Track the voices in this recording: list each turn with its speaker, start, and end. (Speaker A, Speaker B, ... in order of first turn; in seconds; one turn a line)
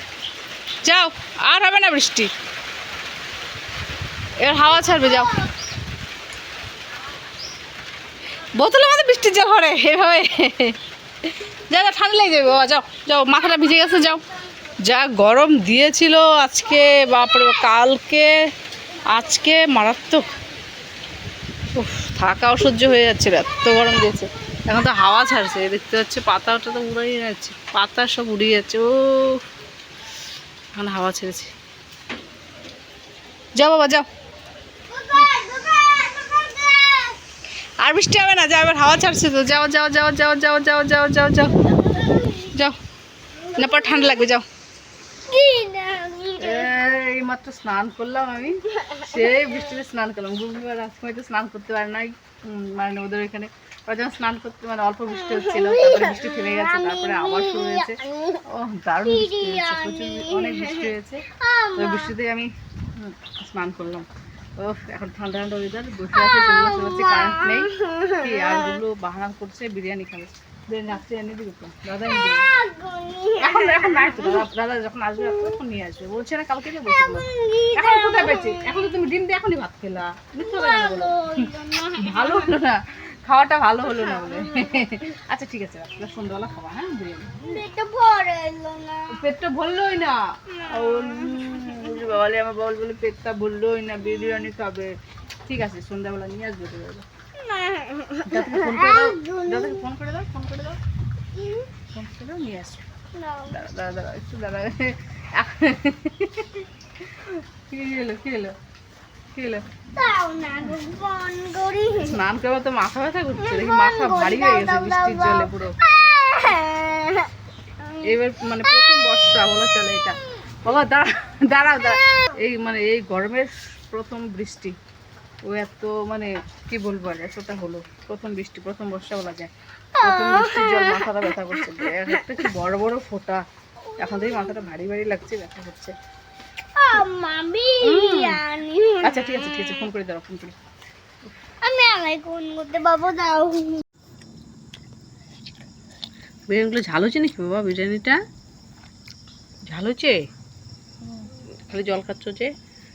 Speaker A: 0.8-2.3
Speaker A: 4.4-5.3
Speaker B: 4.9-5.2
Speaker A: 8.6-14.2
Speaker A: 14.8-18.3
Speaker A: 19.1-20.3
Speaker A: 21.8-29.4
Speaker A: 30.7-31.5
Speaker A: 33.5-34.0
Speaker B: 34.9-37.2
Speaker A: 37.8-41.8
Speaker B: 41.8-42.5
Speaker A: 43.5-44.4
Speaker B: 43.6-44.1
Speaker B: 45.3-46.7
Speaker A: 46.4-61.2
Speaker B: 48.9-49.5
Speaker B: 55.2-58.4
Speaker B: 59.0-62.1
Speaker A: 61.8-64.1
Speaker A: 64.6-72.4
Speaker B: 66.2-68.6
Speaker B: 72.0-74.4
Speaker A: 73.4-87.6
Speaker B: 76.8-78.9
Speaker B: 80.4-82.5
Speaker B: 83.9-84.8
Speaker B: 87.4-89.2
Speaker A: 89.1-94.9
Speaker B: 90.7-91.8
Speaker A: 95.5-97.0
Speaker B: 97.4-99.8
Speaker A: 98.2-100.8
Speaker B: 101.4-101.7
Speaker A: 101.9-102.8
Speaker B: 103.2-103.6
Speaker A: 103.5-108.5
Speaker A: 109.3-109.6
Speaker B: 109.9-112.2
Speaker A: 112.0-115.7
Speaker B: 113.4-117.3
Speaker A: 118.0-124.7
Speaker A: 125.5-133.4
Speaker B: 129.9-132.3
Speaker B: 133.9-134.7
Speaker A: 134.0-135.9
Speaker B: 136.8-139.9
Speaker A: 137.8-138.4
Speaker A: 139.0-140.6
Speaker B: 141.6-143.8
Speaker A: 146.5-148.2
Speaker A: 149.7-150.2
Speaker A: 151.7-152.5